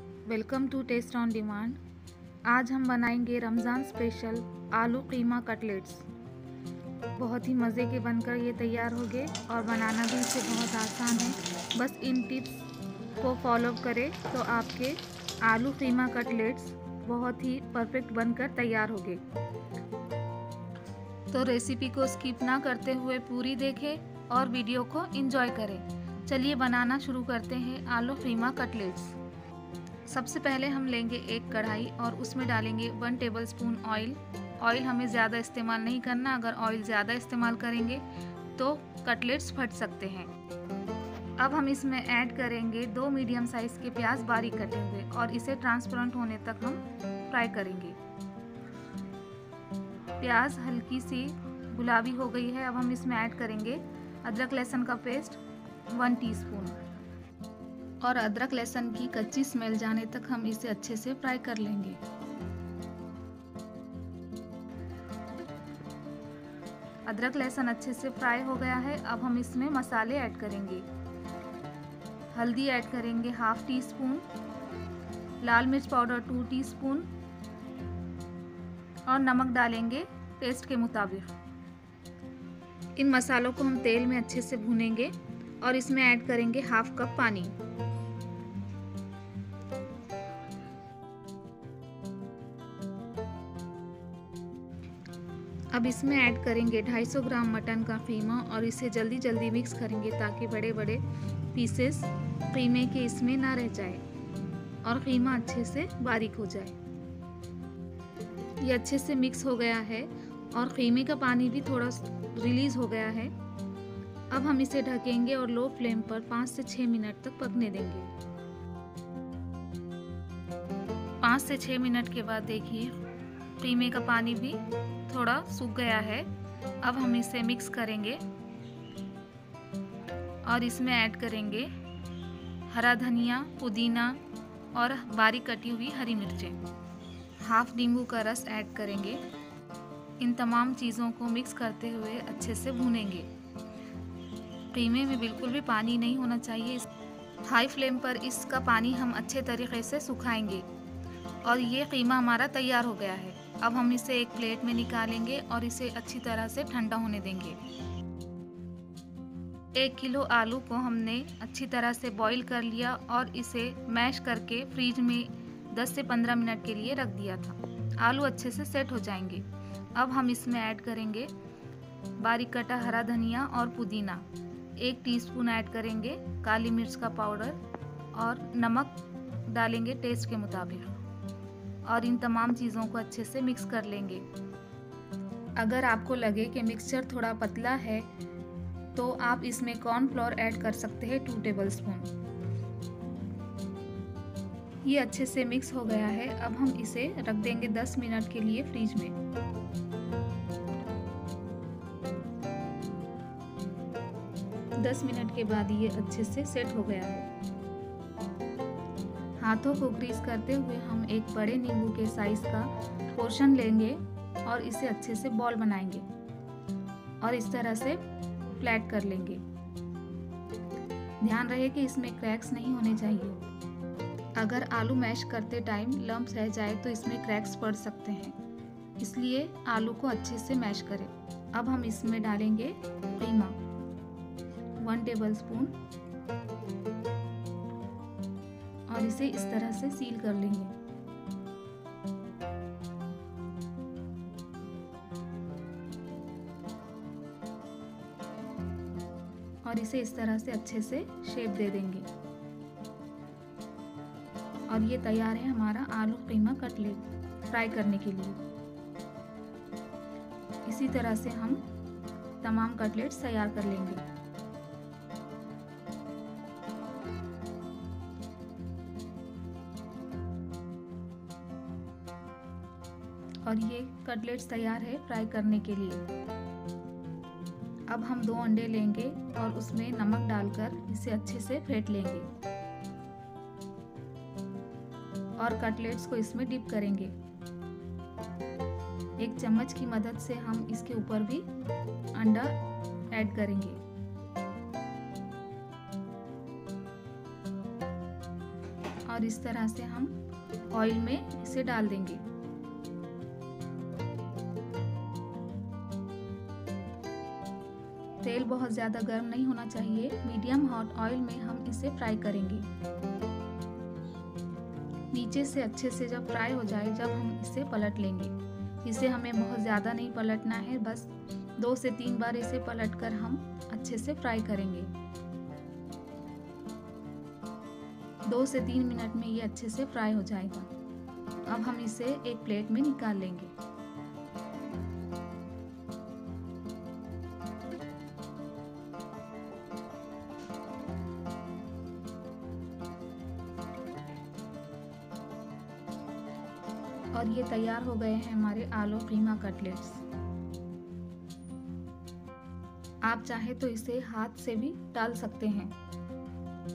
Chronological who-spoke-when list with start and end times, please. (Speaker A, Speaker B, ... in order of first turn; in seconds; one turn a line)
Speaker A: 0.3-1.8
Speaker A: 2.5-6.1
Speaker A: 7.2-19.2
Speaker A: 21.3-29.2
Speaker A: 30.1-40.3
Speaker A: 41.4-48.0
Speaker A: 50.2-55.4
Speaker A: 55.9-56.9
Speaker A: 58.0-62.0
Speaker A: 67.0-70.9
Speaker A: 72.3-74.2
Speaker A: 75.4-77.1
Speaker A: 79.0-81.3
Speaker A: 83.0-87.5
Speaker A: 95.7-104.0
Speaker A: 104.8-106.8
Speaker A: 108.6-113.3
Speaker A: 114.3-118.1
Speaker A: 121.2-123.0
Speaker A: 123.6-126.3
Speaker A: 126.8-128.2
Speaker A: 130.4-131.7
Speaker A: 132.7-134.2
Speaker A: 134.7-136.6
Speaker A: 137.4-139.2
Speaker A: 140.2-143.3
Speaker A: 144.7-146.9
Speaker A: 147.4-150.7
Speaker A: 151.4-157.6
Speaker A: 159.8-171.3
Speaker A: 172.2-177.6
Speaker A: 178.1-180.9
Speaker A: 181.8-184.2
Speaker A: 185.6-188.1
Speaker A: 188.9-192.1
Speaker A: 194.8-199.2
Speaker A: 204.8-207.3
Speaker A: 209.4-216.1
Speaker A: 217.2-219.4
Speaker A: 221.2-223.4
Speaker A: 224.3-228.4
Speaker A: 229.0-233.6
Speaker A: 234.8-235.8
Speaker A: 238.9-240.7
Speaker A: 249.6-252.1
Speaker A: 254.7-258.4
Speaker A: 260.6-261.7
Speaker A: 262.4-264.0
Speaker A: 273.4-276.1
Speaker A: 277.9-282.3
Speaker A: 285.4-287.1
Speaker A: 289.2-291.5
Speaker A: 292.1-292.6
Speaker A: 293.1-293.8
Speaker A: 299.1-300.2
Speaker A: 300.7-302.2
Speaker A: 308.2-312.7
Speaker A: 315.1-324.9
Speaker A: 328.3-330.7
Speaker A: 331.5-333.5
Speaker A: 347.1-350.0
Speaker A: 353.0-355.8